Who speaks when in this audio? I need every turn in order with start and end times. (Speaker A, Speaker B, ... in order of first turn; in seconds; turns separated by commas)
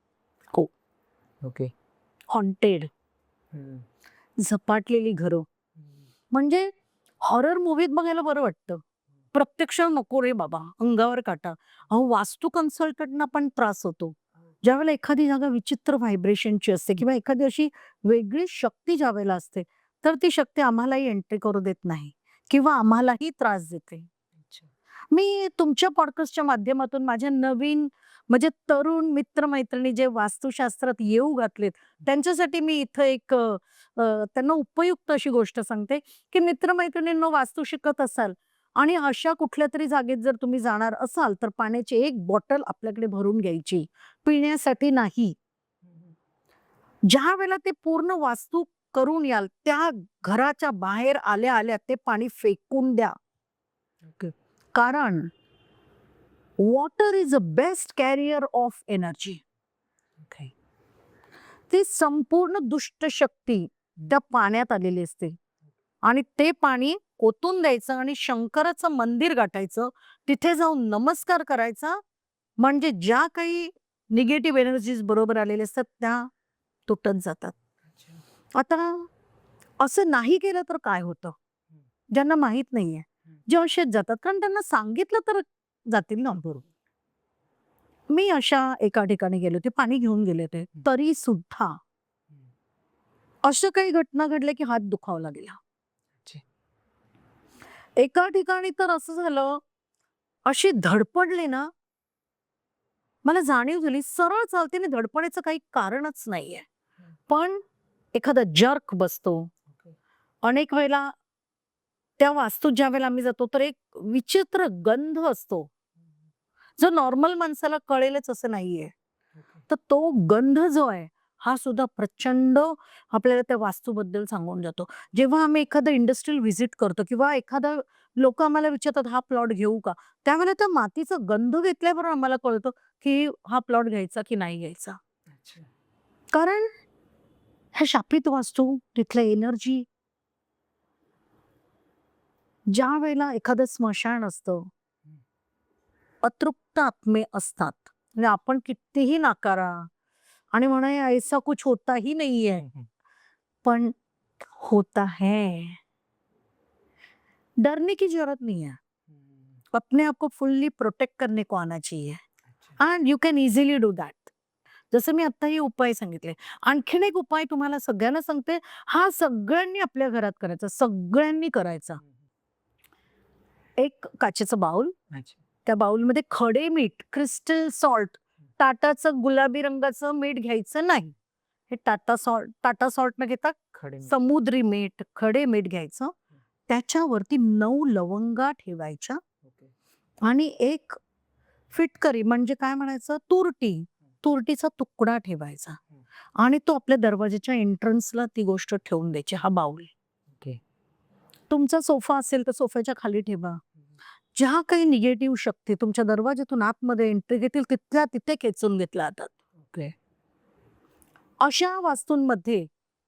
Speaker A: 1.4-1.7, Speaker B: 2.3-2.9, Speaker A: 3.5-3.8, Speaker B: 4.4-5.5, Speaker B: 6.3-8.8, Speaker B: 9.3-24.1, Speaker B: 25.1-45.4, Speaker B: 47.1-53.1, Speaker B: 54.7-55.3, Speaker B: 56.6-59.4, Speaker A: 60.2-60.5, Speaker B: 61.7-65.4, Speaker B: 66.0-72.0, Speaker B: 72.6-76.3, Speaker B: 76.9-77.5, Speaker B: 78.5-79.1, Speaker B: 79.8-81.3, Speaker B: 82.1-86.6, Speaker B: 88.1-91.8, Speaker B: 93.4-95.6, Speaker B: 98.0-99.6, Speaker B: 100.5-101.7, Speaker B: 103.2-106.6, Speaker B: 107.3-107.6, Speaker B: 108.1-109.5, Speaker B: 110.4-111.1, Speaker B: 112.2-115.7, Speaker B: 116.8-118.9, Speaker B: 119.7-135.0, Speaker A: 135.3-135.7, Speaker B: 136.3-136.7, Speaker B: 137.7-139.8, Speaker B: 142.7-144.7, Speaker B: 146.2-149.9, Speaker B: 150.5-152.7, Speaker B: 153.6-153.9, Speaker B: 154.6-155.8, Speaker B: 157.6-158.8, Speaker B: 159.7-162.2, Speaker B: 162.8-164.3, Speaker B: 164.9-172.0, Speaker B: 173.8-174.9, Speaker A: 175.1-175.4, Speaker B: 175.7-181.1, Speaker B: 181.7-186.1, Speaker A: 183.7-184.1, Speaker B: 186.7-189.2, Speaker B: 190.2-191.0, Speaker B: 191.7-195.8, Speaker B: 196.4-199.9, Speaker B: 201.5-203.6, Speaker B: 204.3-209.3, Speaker A: 209.6-209.9, Speaker B: 211.4-212.7